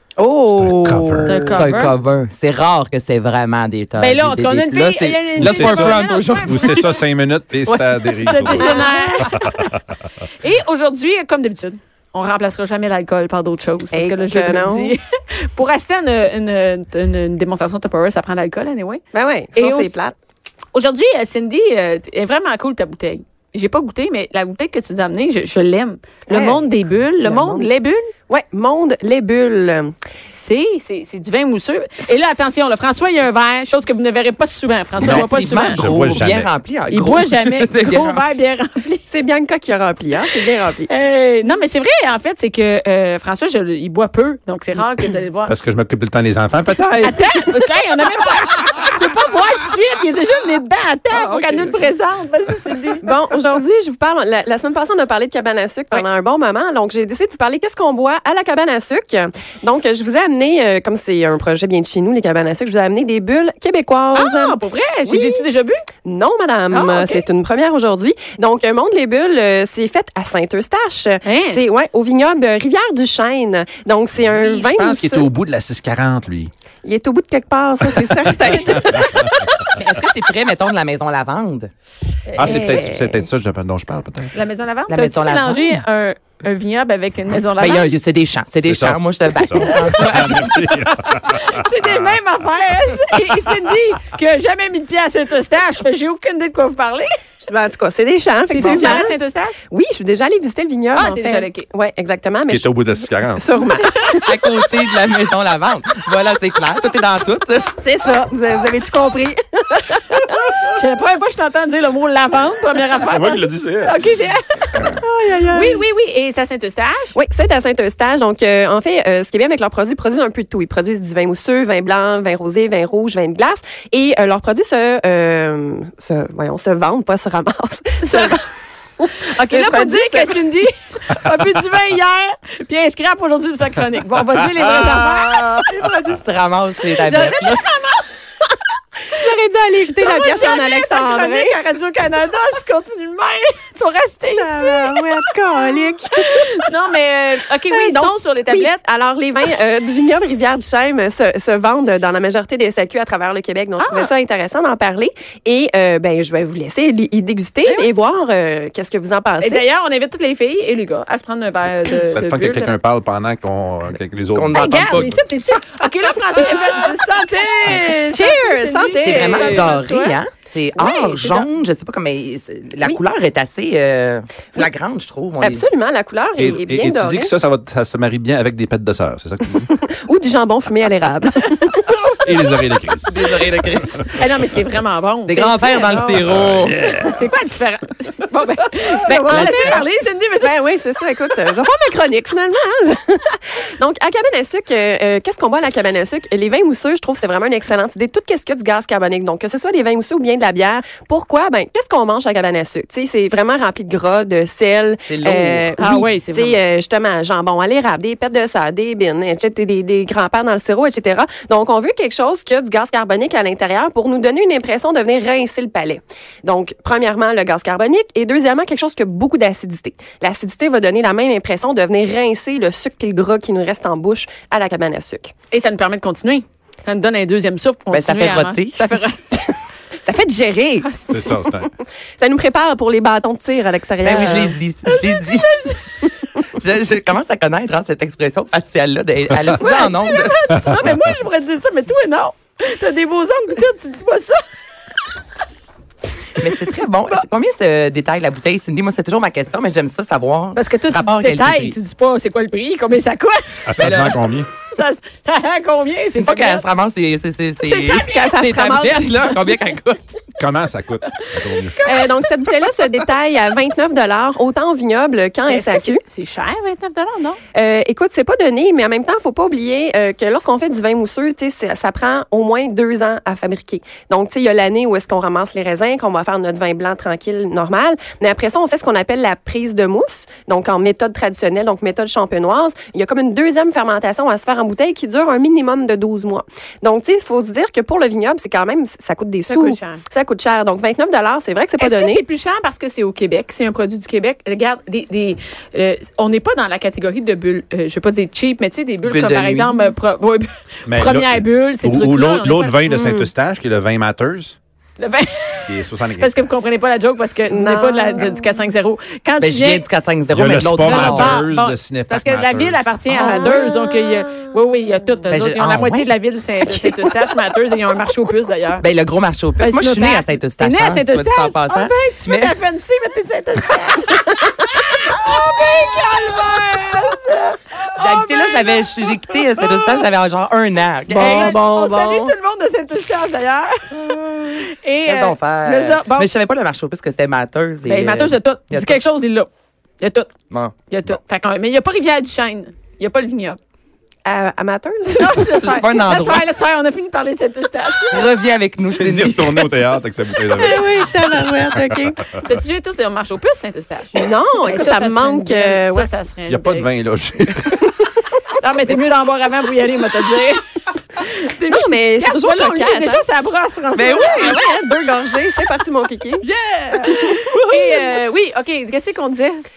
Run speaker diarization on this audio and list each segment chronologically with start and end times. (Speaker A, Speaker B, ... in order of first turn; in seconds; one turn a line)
Speaker A: 0.2-1.9
Speaker B: 0.5-1.4
Speaker C: 1.2-1.9
Speaker D: 1.5-6.9
Speaker C: 4.0-7.0
Speaker B: 5.4-9.8
Speaker D: 7.7-8.8
Speaker C: 8.2-9.8
Speaker A: 8.5-9.3
Speaker C: 10.4-19.0
Speaker A: 13.9-14.9
Speaker A: 19.1-20.1
Speaker C: 19.6-19.9
Speaker C: 20.7-28.1
Speaker A: 26.3-26.6
Speaker A: 27.2-27.7
Speaker A: 28.3-29.9
Speaker C: 30.3-35.8
Speaker B: 35.0-36.5
Speaker D: 35.0-38.3
Speaker C: 36.9-39.0
Speaker A: 39.1-40.9
Speaker C: 40.9-45.5
Speaker B: 45.5-47.2
Speaker C: 47.0-53.0
Speaker B: 51.3-51.7
Speaker A: 53.0-65.5
Speaker C: 64.1-65.8
Speaker A: 66.0-75.3
Speaker C: 66.7-67.2
Speaker C: 71.2-71.6
Speaker B: 74.2-76.5
Speaker A: 76.8-79.6
Speaker B: 78.7-79.3
Speaker D: 79.8-81.7
Speaker C: 82.3-82.9
Speaker B: 82.3-84.3
Speaker A: 82.4-83.2
Speaker C: 84.3-87.9
Speaker D: 84.9-85.8
Speaker D: 87.6-90.8
Speaker B: 88.6-91.7
Speaker C: 89.6-89.9
Speaker C: 91.3-97.1
Speaker A: 97.4-99.2
Speaker C: 98.5-99.6
Speaker A: 99.7-104.3
Speaker C: 101.0-101.7
Speaker B: 102.5-103.5
Speaker D: 104.2-107.7
Speaker A: 107.8-110.5
Speaker C: 110.7-114.8
Speaker B: 113.1-113.9
Speaker A: 115.0-115.8
Speaker C: 115.5-117.2
Speaker A: 117.2-128.4
Speaker C: 128.0-128.4
Speaker A: 129.0-130.4
Speaker C: 129.3-135.5
Speaker D: 135.2-137.6
Speaker C: 137.0-138.1
Speaker A: 139.1-141.6
Speaker C: 140.0-145.1
Speaker A: 144.4-146.4
Speaker C: 146.2-148.8
Speaker A: 147.7-159.7
Speaker C: 153.8-154.1
Speaker C: 159.4-162.8
Speaker B: 162.1-165.2
Speaker D: 164.3-165.2
Speaker C: 164.5-170.2
Speaker A: 168.1-169.8
Speaker D: 169.0-175.6
Speaker C: 170.8-171.5
Speaker A: 175.4-177.3
Speaker B: 176.4-179.7
Speaker A: 179.6-182.4
Speaker C: 181.9-182.5
Speaker B: 182.2-184.1
Speaker D: 183.1-184.0
Speaker C: 184.1-186.2
Speaker D: 185.3-186.8
Speaker B: 186.2-187.2
Speaker C: 187.0-190.5
Speaker A: 189.2-189.9
Speaker D: 189.2-189.8
Speaker A: 190.4-225.3
Speaker D: 205.1-205.9
Speaker C: 205.8-206.6
Speaker C: 225.5-229.2
Speaker D: 227.9-228.8
Speaker A: 230.1-231.0
Speaker C: 230.8-231.3
Speaker B: 231.1-231.7
Speaker A: 232.2-234.6
Speaker D: 234.0-235.8
Speaker C: 234.2-235.8
Speaker D: 236.4-240.7
Speaker C: 239.5-244.4
Speaker D: 246.4-251.8
Speaker C: 250.6-253.6
Speaker B: 253.7-254.5
Speaker D: 253.8-254.2
Speaker C: 254.7-256.7
Speaker D: 256.2-260.3
Speaker C: 257.6-258.3
Speaker A: 258.0-259.4
Speaker B: 260.4-261.8
Speaker C: 261.5-262.6
Speaker A: 261.8-266.0
Speaker C: 265.5-267.4
Speaker A: 267.6-292.2
Speaker C: 289.5-290.0
Speaker C: 291.8-302.8
Speaker D: 299.1-299.9
Speaker B: 300.9-304.6
Speaker A: 302.9-303.3
Speaker C: 305.0-309.9
Speaker B: 305.6-306.4
Speaker A: 307.5-308.4
Speaker D: 309.4-311.5
Speaker B: 310.3-312.8
Speaker C: 310.8-318.9
Speaker D: 313.1-313.5
Speaker A: 313.1-314.3
Speaker D: 315.3-316.1
Speaker D: 318.8-322.6
Speaker C: 319.6-328.9
Speaker D: 327.9-331.6
Speaker A: 331.1-332.3
Speaker C: 331.1-336.3
Speaker D: 334.1-334.4
Speaker D: 335.1-339.0
Speaker C: 337.9-340.3
Speaker C: 340.9-343.6
Speaker A: 344.2-345.6
Speaker C: 345.1-348.3
Speaker D: 345.4-346.5
Speaker D: 348.1-349.8
Speaker B: 348.8-351.2
Speaker D: 350.5-352.1
Speaker A: 350.8-351.6
Speaker B: 351.7-352.1
Speaker C: 352.4-356.9
Speaker A: 354.2-356.1
Speaker B: 356.5-357.9
Speaker C: 358.6-364.6
Speaker A: 361.7-363.3
Speaker D: 363.9-364.7
Speaker A: 364.2-366.4
Speaker D: 366.4-368.1
Speaker C: 367.1-369.6